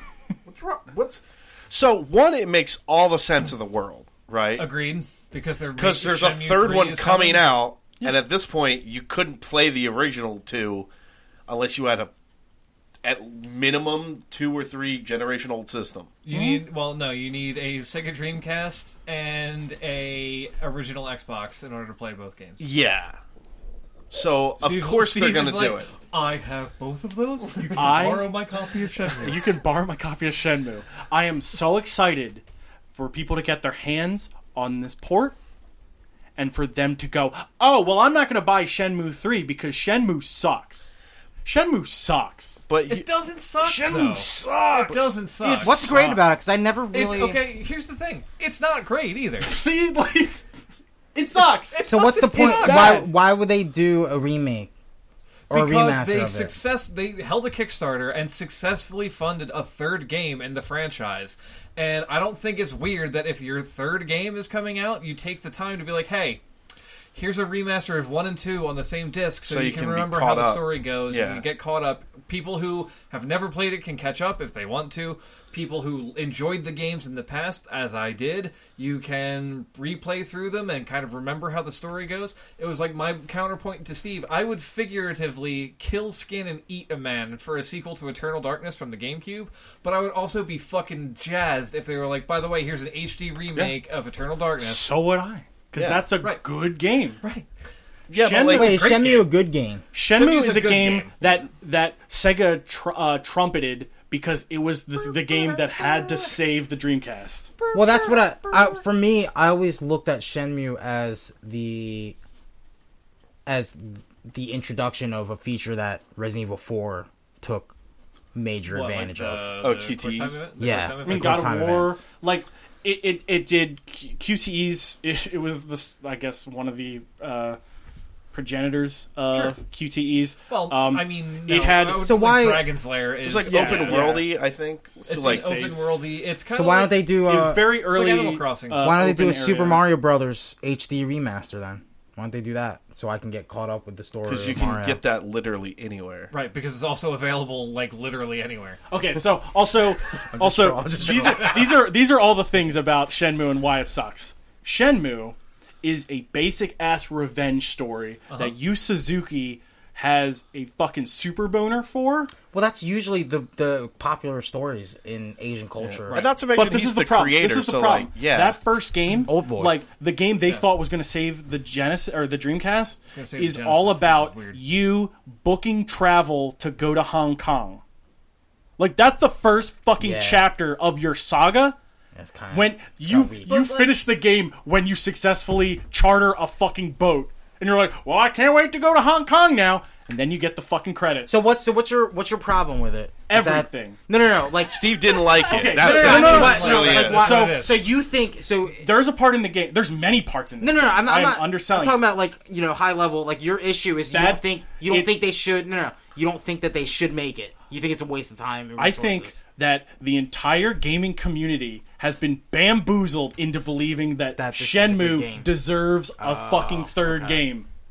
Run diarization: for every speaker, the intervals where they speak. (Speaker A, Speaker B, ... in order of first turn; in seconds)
Speaker A: 0.4-4.7, 5.8-10.9, 11.5-12.1, 13.0-16.1, 22.6-23.2, 24.1-25.9, 42.7-43.1, 69.5-71.4, 95.7-96.1, 98.1-98.8, 119.6-120.5, 133.2-135.9, 144.2-146.3, 165.8-168.6, 194.6-197.4
Speaker B: 4.6-7.6, 16.2-22.7, 24.6-29.4, 42.9-46.0, 46.9-49.6, 51.7-53.1, 55.5-66.4, 67.1-94.9, 97.2-97.5, 98.5-99.3, 100.1-101.2, 105.0-106.4, 107.6-108.8, 118.7-121.6, 129.3-129.6, 130.5-134.1, 135.1-137.0, 137.8-138.9, 146.3-148.8, 151.2-151.7, 173.1-174.6, 183.5-183.8, 195.5-197.8
Speaker C: 16.3-16.6, 27.7-28.3, 29.2-35.4, 36.4-40.9, 41.4-42.6, 43.6-46.2, 49.4-50.4, 51.1-53.1, 94.6-97.2, 98.1-98.9, 99.9-107.5, 121.0-127.6, 128.3-132.1, 133.4-134.3, 135.1-135.8, 137.2-139.9, 148.9-162.3, 166.5-177.8, 178.8-181.8, 182.5-191.4, 193.3-194.0, 195.5-197.6, 198.8-202.0, 204.1-205.2, 208.8-217.7
Speaker D: 45.6-47.4, 51.8-54.7, 55.5-56.5, 98.5-99.8, 107.7-112.2, 113.5-117.7, 118.3-119.5, 120.6-122.0, 132.0-132.7, 136.5-137.8, 138.8-145.0, 150.3-151.6, 162.5-166.3, 169.2-169.8, 180.0-180.5, 182.1-183.8, 191.3-195.0, 195.8-198.9, 200.6-209.4, 214.3-215.6, 216.2-217.4